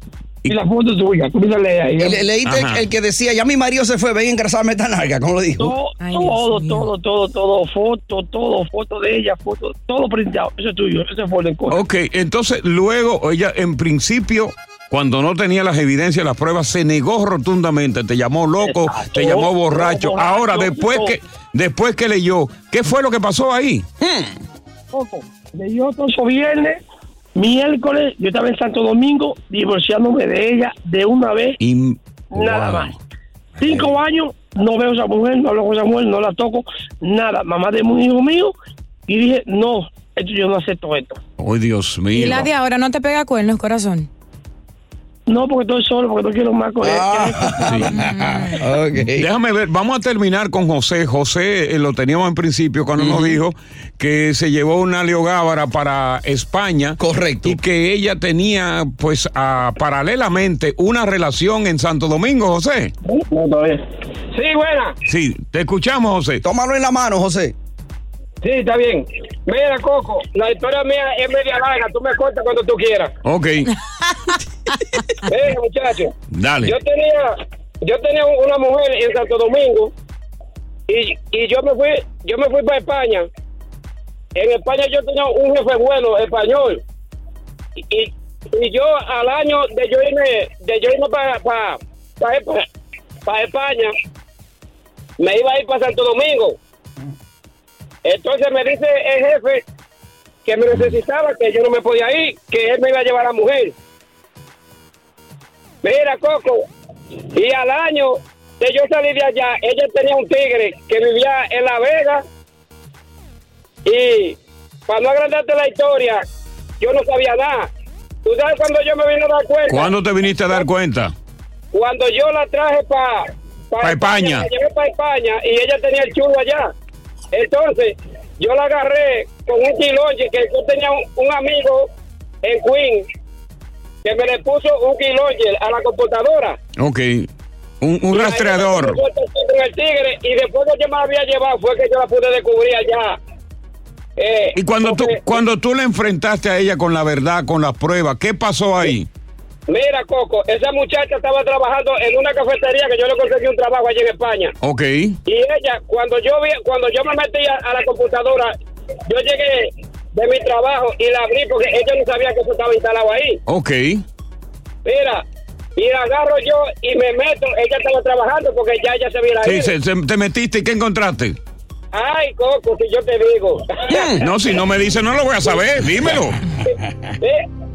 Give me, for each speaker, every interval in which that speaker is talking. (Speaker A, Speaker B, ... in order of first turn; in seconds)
Speaker A: 0.5-2.2, 5.6-11.8, 18.6-21.2, 24.9-26.8, 27.4-31.6, 32.3-32.9, 33.6-38.5, 39.1-41.2, 45.3-47.8, 63.0-63.8
Speaker B: 2.0-5.7, 24.0-24.4, 33.6-33.9, 46.8-49.3, 53.0-53.4, 57.0-57.6, 66.4-67.5, 173.9-174.2
Speaker C: 2.5-2.8, 11.7-23.9, 31.6-33.0, 41.4-42.5, 47.7-47.9, 49.1-62.9, 65.1-66.4, 73.2-73.7, 76.3-76.7, 119.7-121.1, 123.8-124.5, 136.8-137.3, 137.8-139.0, 144.6-149.1, 154.6-155.2, 163.5-164.0, 169.4-171.4, 174.2-176.4
Speaker D: 6.0-6.9, 42.1-44.1, 48.0-48.6
Speaker E: 64.3-65.0, 68.4-73.1, 75.3-76.1, 76.6-79.9, 80.9-83.3, 84.3-86.8, 87.9-92.7, 93.2-93.9, 95.2-96.6, 98.0-99.6, 100.5-103.7, 105.8-106.7, 107.3-112.2, 113.9-116.2, 116.8-117.7, 118.2-119.9, 121.7-126.7, 127.3-131.9, 132.4-133.1, 134.0-136.6, 138.1-143.2, 144.2-145.2, 149.7-154.6, 155.3-158.5, 159.1-163.4, 164.8-165.2, 165.8-169.7, 171.9-174.0, 176.6-177.4